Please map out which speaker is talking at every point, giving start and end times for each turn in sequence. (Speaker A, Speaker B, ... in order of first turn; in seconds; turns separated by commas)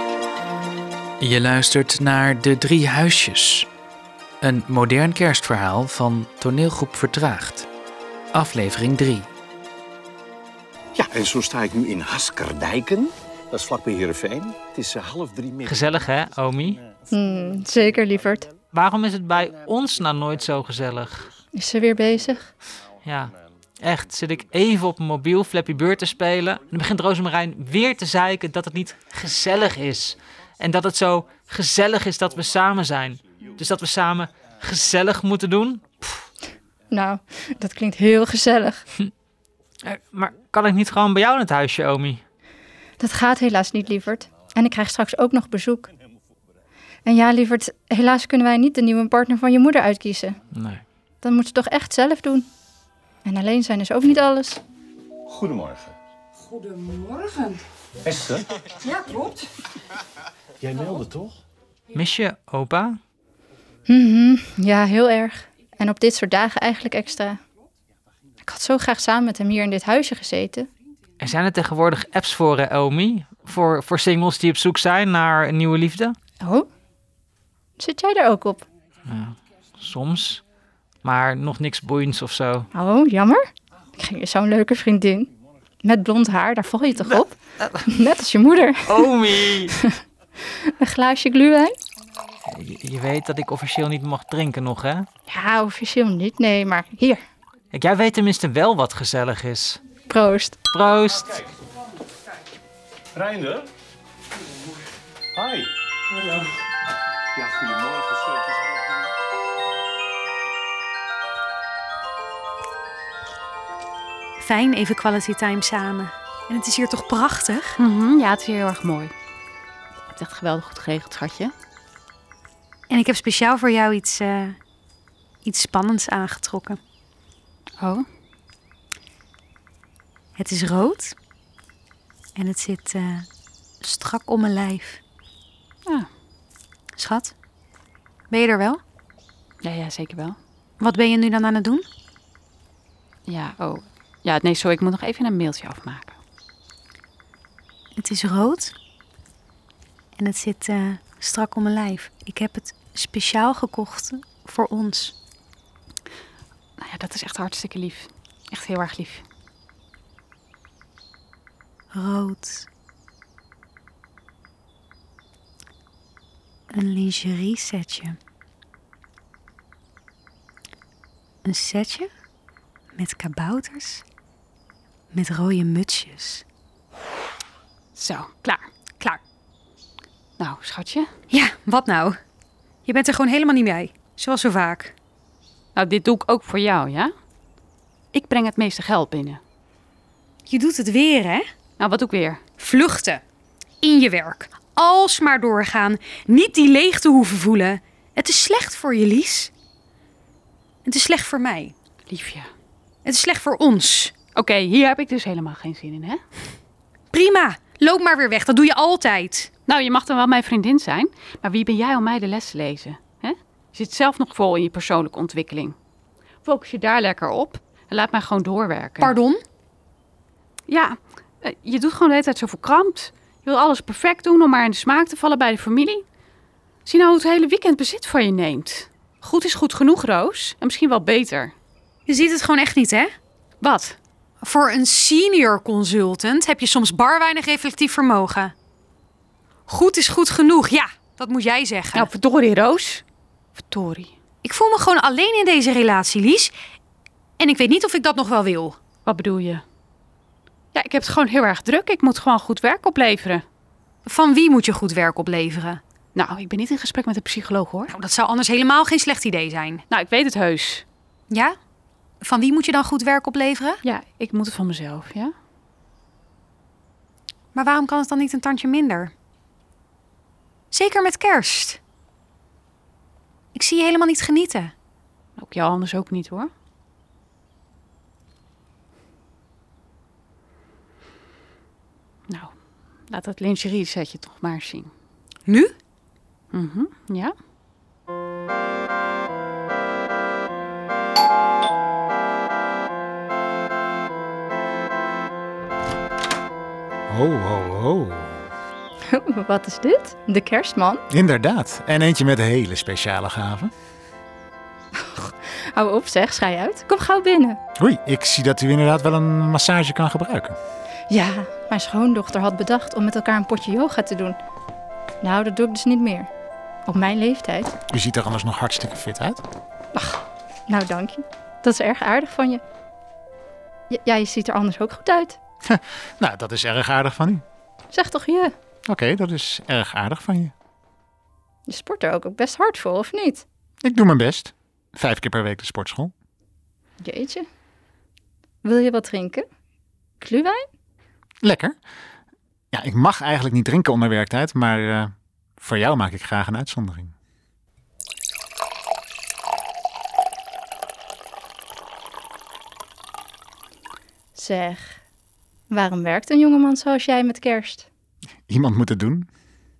Speaker A: 1.2-3.7, Speaker A: 4.4-7.7, Speaker A: 8.3-9.3, Speaker B: 11.0-15.9, Speaker C: 15.6-16.8, Speaker D: 17.1-18.5, Speaker C: 18.7-21.3, Speaker D: 21.5-22.5, Speaker C: 23.0-35.8, Speaker D: 36.9-38.8, Speaker C: 39.8-42.2, Speaker D: 43.0-45.9, Speaker D: 47.1-50.4, Speaker C: 50.5-50.8, Speaker D: 51.2-52.5, Speaker D: 53.2-54.6, Speaker B: 55.3-56.0, Speaker B: 58.1-58.4, Speaker B: 60.6-61.4, Speaker C: 61.9-63.0, Speaker D: 63.9-67.4, Speaker D: 68.4-70.7, Speaker C: 71.2-76.2, Speaker D: 76.4-76.7, Speaker D: 77.8-78.7, Speaker C: 79.1-80.4, Speaker C: 81.0-82.7, Speaker D: 82.7-83.4, Speaker D: 84.0-85.3, Speaker D: 85.8-90.0, Speaker C: 88.9-89.8, Speaker D: 90.7-91.7, Speaker C: 92.5-95.1, Speaker D: 95.3-97.2, Speaker C: 97.7-99.8, Speaker D: 100.1-100.6, Speaker C: 100.7-101.3, Speaker B: 103.2-103.7, Speaker B: 105.3-105.7, Speaker B: 107.4-108.5, Speaker E: 114.4-117.8, Speaker F: 117.8-119.1, Speaker F: 120.1-121.5, Speaker E: 122.9-124.6, Speaker E: 125.4-126.8, Speaker F: 127.8-128.1, Speaker E: 130.4-131.2, Speaker E: 132.4-133.3, Speaker E: 133.8-135.0, Speaker E: 137.0-137.3, Speaker E: 138.3-138.8, Speaker F: 139.6-140.4, Speaker E: 140.8-141.9, Speaker F: 143.3-146.2, Speaker E: 148.0-148.7, Speaker E: 150.2-155.1, Speaker F: 156.8-159.2, Speaker E: 161.9-162.7, Speaker E: 166.7-168.2, Speaker E: 171.4-172.1, Speaker E: 173.0-174.0, Speaker E: 175.1-176.4, Speaker F: 177.9-178.7, Speaker F: 180.4-181.1, Speaker E: 181.3-182.2, Speaker E: 182.9-184.9, Speaker F: 185.8-187.1, Speaker F: 188.1-189.4, Speaker E: 190.5-191.5, Speaker F: 191.8-192.5, Speaker E: 192.6-193.2, Speaker E: 193.8-199.5, Speaker E: 200.8-201.7, Speaker F: 202.1-202.5, Speaker E: 203.1-204.1, Speaker F: 204.3-206.2, Speaker E: 207.1-209.5, Speaker F: 209.7-215.8, Speaker F: 216.4-219.2, Speaker E: 219.0-219.4, Speaker F: 220.7-226.1, Speaker F: 226.9-231.5, Speaker E: 232.1-233.1, Speaker F: 233.6-234.0, Speaker E: 234.4-238.5, Speaker E: 239.7-242.1, Speaker F: 241.9-243.0, Speaker F: 243.6-244.1, Speaker E: 244.4-246.5, Speaker E: 247.4-248.8, Speaker F: 249.1-249.6, Speaker F: 250.7-253.4, Speaker E: 254.1-255.8, Speaker F: 256.1-257.9, Speaker E: 257.9-259.8, Speaker F: 259.9-260.9, Speaker E: 262.2-263.8, Speaker F: 263.8-265.3, Speaker E: 267.5-269.1, Speaker E: 270.7-271.8, Speaker E: 273.6-274.7, Speaker F: 275.4-276.5, Speaker F: 282.3-282.5, Speaker F: 283.1-284.9, Speaker E: 285.5-285.7, Speaker F: 286.5-287.3, Speaker G: 297.1-298.4, Speaker D: 299.1-301.0, Speaker G: 301.1-303.7, Speaker D: 305.0-307.6, Speaker G: 307.8-310.6, Speaker D: 311.1-314.4, Speaker D: 315.2-316.3, Speaker D: 316.9-317.7, Speaker G: 317.9-319.4, Speaker D: 319.9-322.6, Speaker D: 323.9-325.4, Speaker G: 325.7-327.4, Speaker D: 327.9-328.5, Speaker G: 328.9-330.5, Speaker D: 331.7-333.4, Speaker G: 333.8-336.1, Speaker D: 337.0-337.5, Speaker D: 338.6-339.5, Speaker D: 340.2-340.6, Speaker G: 341.4-341.8, Speaker G: 342.7-347.1, Speaker D: 354.4-355.0, Speaker D: 355.7-357.9, Speaker G: 358.5-359.3